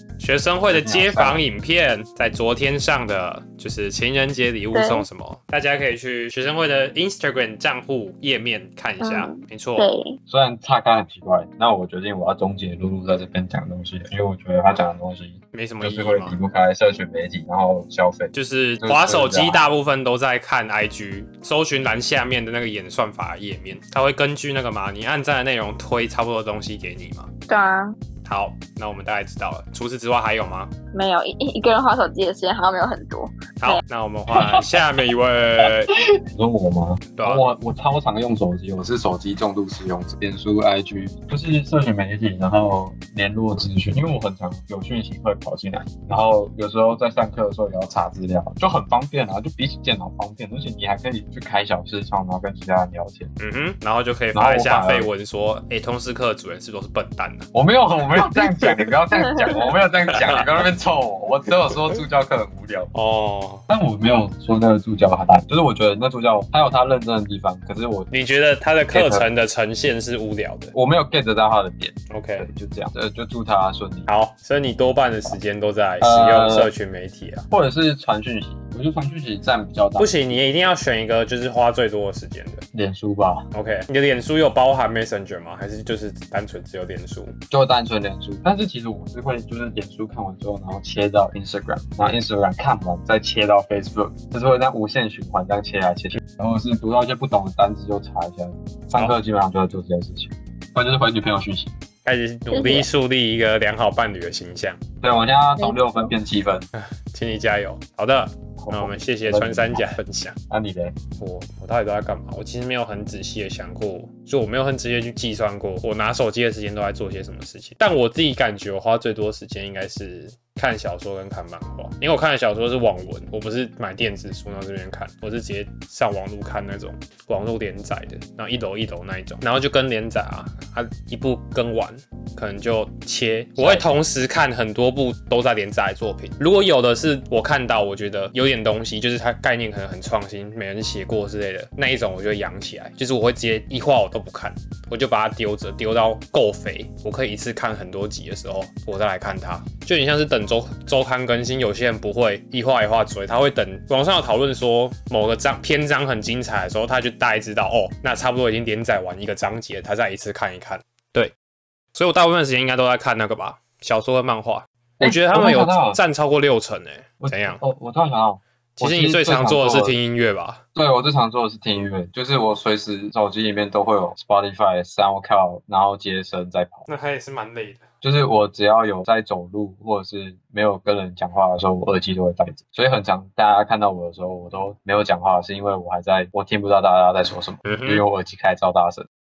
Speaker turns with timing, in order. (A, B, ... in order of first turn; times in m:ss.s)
0:00.2-0:09.9 A
0:00.6-0:01.4 B
0:04.7-0:05.0 C
0:09.0-0:10.2 C
0:10.3-0:19.6 B
0:15.5-0:16.4 A
0:18.3-0:27.3 A
0:27.5-0:28.0 C
0:28.2-0:30.7 A
0:30.9-0:33.8 C
0:33.6-0:35.9 A
0:34.3-0:34.9 B
0:36.3-0:53.3 B
0:37.2-0:37.5 A
0:53.4-0:57.5 A
0:54.3-0:55.1 B
0:57.5-1:02.9 B
1:02.9-1:03.6 A
1:03.7-1:08.1 B
1:08.1-1:10.7 A
1:08.9-1:09.3 B
1:10.7-1:14.1 B
1:12.1-1:12.5 A
1:14.1-1:17.5 A
1:16.0-1:16.7 B
1:17.5-1:20.5 B
1:20.0-1:22.6 A
1:22.7-1:23.5 B
1:23.5-1:27.3 A
1:27.5-1:41.7 B
1:42.0-1:44.8 A
1:42.5-1:42.9 C
1:45.0-1:46.7 B
1:47.1-1:50.4 A
1:48.6-1:50.0 B
1:50.5-1:51.0 B
1:51.2-2:41.3 A
2:13.6-2:14.0 B
2:41.9-2:47.6 A
2:45.0-2:46.0 B
2:47.2-2:50.0 B
2:48.8-2:50.6 A
2:50.8-2:56.9 B
2:56.9-2:57.9 A
2:58.0-3:09.1 B
3:07.7-3:08.0 A